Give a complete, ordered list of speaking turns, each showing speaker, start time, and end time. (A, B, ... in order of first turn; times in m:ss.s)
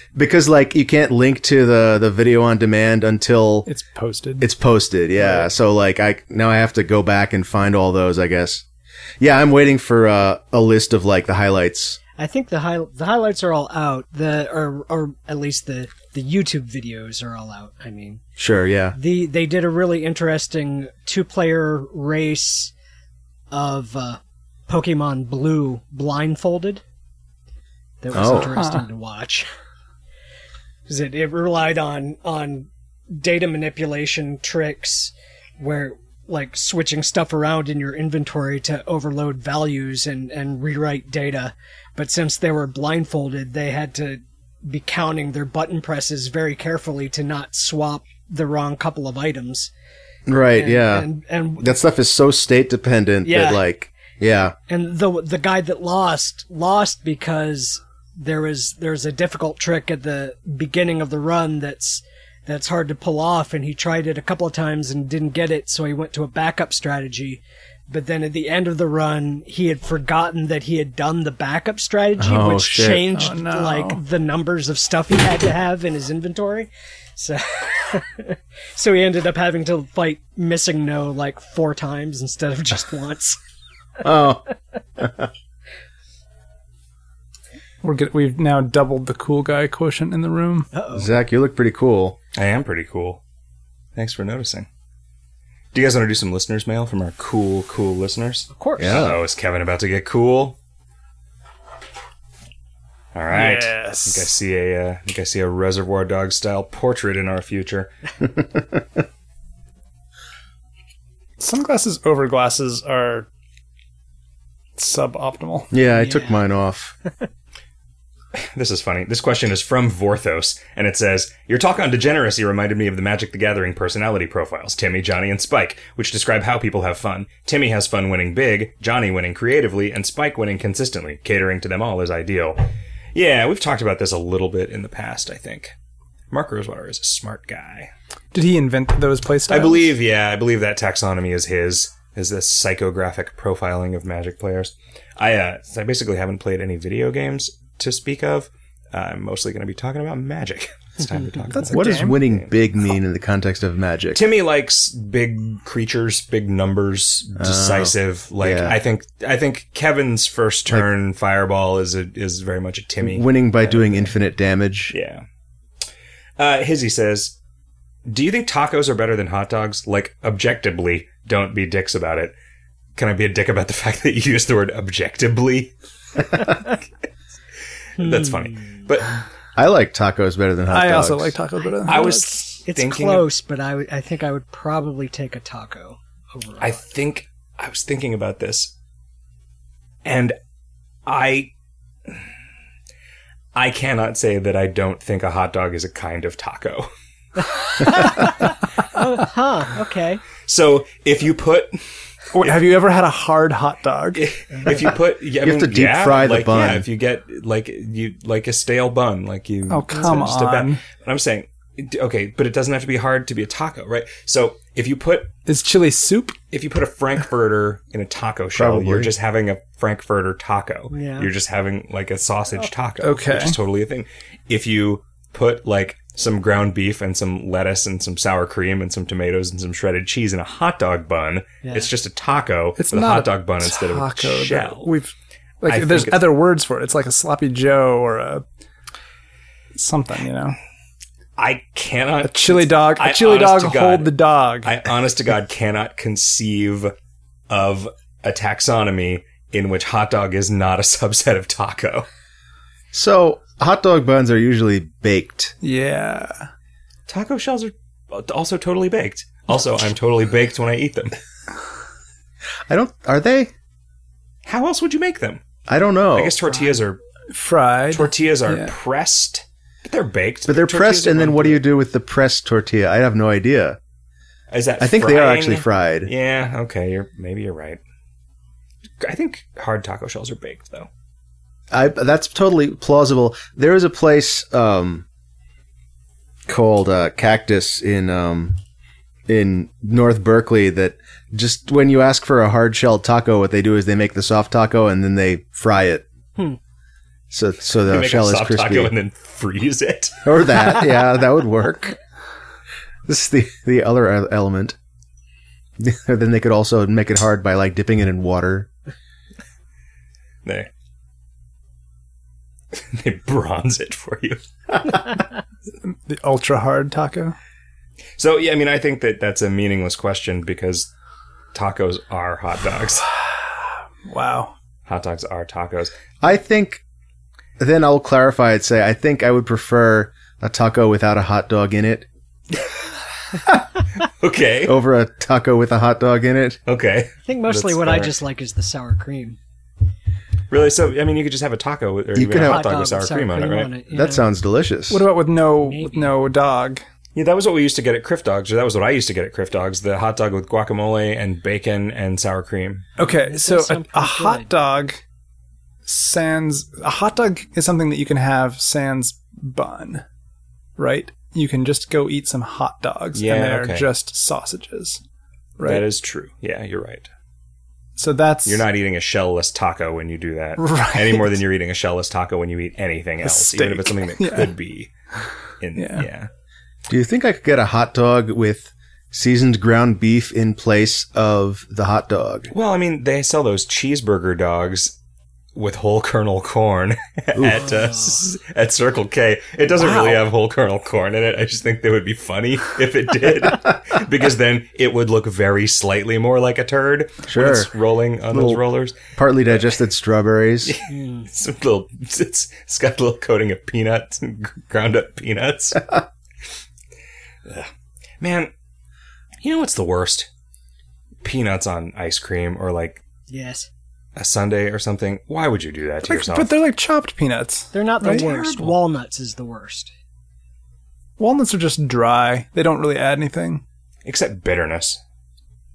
0:00.2-0:03.7 A
0:03.7-0:04.5 B
0:04.4-0:08.6 A
0:05.2-0:05.5 B
0:09.2-0:12.0 A
0:12.2-0:18.2 C
0:18.4-0:19.0 A
0:19.0-0:22.7 C
0:23.5-0:26.8 C
0:28.0-0:29.5 C
0:28.1-0:28.5 A
0:28.2-0:28.8 B
0:30.9-0:49.7 C
0:50.3-0:51.1 A
0:50.6-0:51.8 C
0:51.6-0:54.6 A
0:53.2-0:53.6 C
0:54.7-1:23.4 C
1:12.2-1:13.1 A
1:13.1-1:14.0 B
1:24.0-1:24.4 A
1:25.0-1:25.3 A
1:27.8-1:30.7 B
1:30.7-1:31.1 C
1:30.9-1:32.2 A
1:32.4-1:33.2 D
1:34.0-1:34.7 D
1:35.7-1:40.6 D
1:38.5-1:39.1 C
1:38.8-1:39.2 A
1:43.1-1:47.9 D
1:43.3-1:44.3 B
1:48.2-1:49.0 A
1:51.4-1:53.3 B
1:54.8-1:55.7 B
1:55.7-1:56.9 A
1:55.9-1:56.4 C
1:58.4-2:15.8 D
2:16.3-2:17.9 D
2:18.3-2:20.0 B
2:19.5-2:32.5 D
2:31.6-2:32.2 B
2:31.7-2:34.2 A
2:34.2-2:44.1 D
2:37.4-2:38.8 A
2:43.0-2:44.9 A
2:44.9-2:45.2 D
2:46.4-2:47.4 D
2:48.1-2:52.4 D
2:53.0-2:55.7 D
2:56.3-2:56.8 D
2:58.0-2:59.2 D
2:58.0-2:58.6 C
2:59.6-3:01.4 A
3:00.7-3:02.3 B
3:01.9-3:03.3 D
3:02.6-3:06.8 C
3:06.6-3:08.7 D
3:10.0-3:10.4 D
3:11.1-3:11.5 D
3:13.6-3:16.9 D
3:17.8-3:20.2 C
3:20.4-3:21.8 D
3:22.3-3:24.2 B
3:24.1-3:35.3 D
3:25.4-3:26.9 A
3:29.7-3:30.8 B
3:35.5-3:36.4 B
3:36.5-3:54.9 D
3:38.6-3:39.1 A
3:40.9-3:41.3 C
3:43.0-3:43.6 B
3:51.6-3:51.9 C
3:52.8-3:58.4 B
3:55.7-3:56.3 D
3:59.8-4:00.6 B
4:01.4-4:06.9 D
4:02.2-4:04.7 B
4:07.5-4:12.1 D
4:12.9-4:15.6 A
4:15.6-4:16.5 B
4:17.1-4:21.2 D
4:22.7-4:23.5 A
4:24.4-4:25.4 D
4:25.7-4:26.4 A
4:26.1-4:27.0 D
4:27.3-4:28.7 B
4:27.9-4:31.6 D
4:30.5-4:33.8 A
4:34.5-4:37.8 D
4:34.8-4:36.1 A
4:39.0-4:40.9 D
4:41.7-4:45.0 A
4:46.5-4:48.6 A
4:49.3-4:56.0 A
4:57.3-4:58.9 A
4:57.8-5:00.3 D
5:00.2-5:02.0 A
5:03.1-5:04.8 A
5:05.8-5:08.7 A
5:10.4-5:10.7 D
5:12.7-5:14.4 D
5:15.8-5:17.4 B
5:18.2-5:20.9 D
5:21.5-5:23.1 D
5:24.0-5:24.5 B
5:24.9-5:25.9 D
5:26.2-5:26.8 A
5:27.6-5:32.1 A
5:34.0-5:34.8 D
5:34.7-5:36.6 A
5:36.7-5:38.1 D
5:37.3-5:39.4 C
5:40.5-5:43.7 D
5:42.2-5:42.6 A
5:42.4-5:44.2 C
5:43.9-5:45.1 A
5:44.9-5:46.8 B
5:45.6-5:46.1 C
5:47.2-5:52.8 D
5:53.0-5:55.0 B
5:53.0-5:54.5 C
5:55.9-6:00.0 B
6:00.8-6:05.0 B
6:03.1-6:03.9 D
6:05.6-6:05.9 B
6:05.6-6:07.1 D
6:08.0-6:08.6 B
6:08.4-6:14.9 D
6:10.6-6:11.4 B
6:13.2-6:14.5 B
6:15.6-6:16.3 D
6:15.8-6:16.1 B
6:16.9-6:22.5 A
6:22.5-6:25.0 D
6:25.6-6:39.0 D
6:27.4-6:27.6 A
6:27.8-6:28.2 C
6:37.3-6:37.7 A
6:38.3-6:38.6 A
6:39.1-6:40.7 A
6:40.6-6:45.9 D
6:40.9-6:41.2 C
6:47.5-6:48.5 D
6:49.4-6:50.3 D
6:51.2-6:53.0 D
6:53.3-6:53.7 C
6:54.2-6:56.6 D
6:56.0-6:58.3 B
6:57.7-6:59.9 C
6:58.0-6:58.8 D
7:01.2-7:03.6 B
7:04.0-7:05.0 D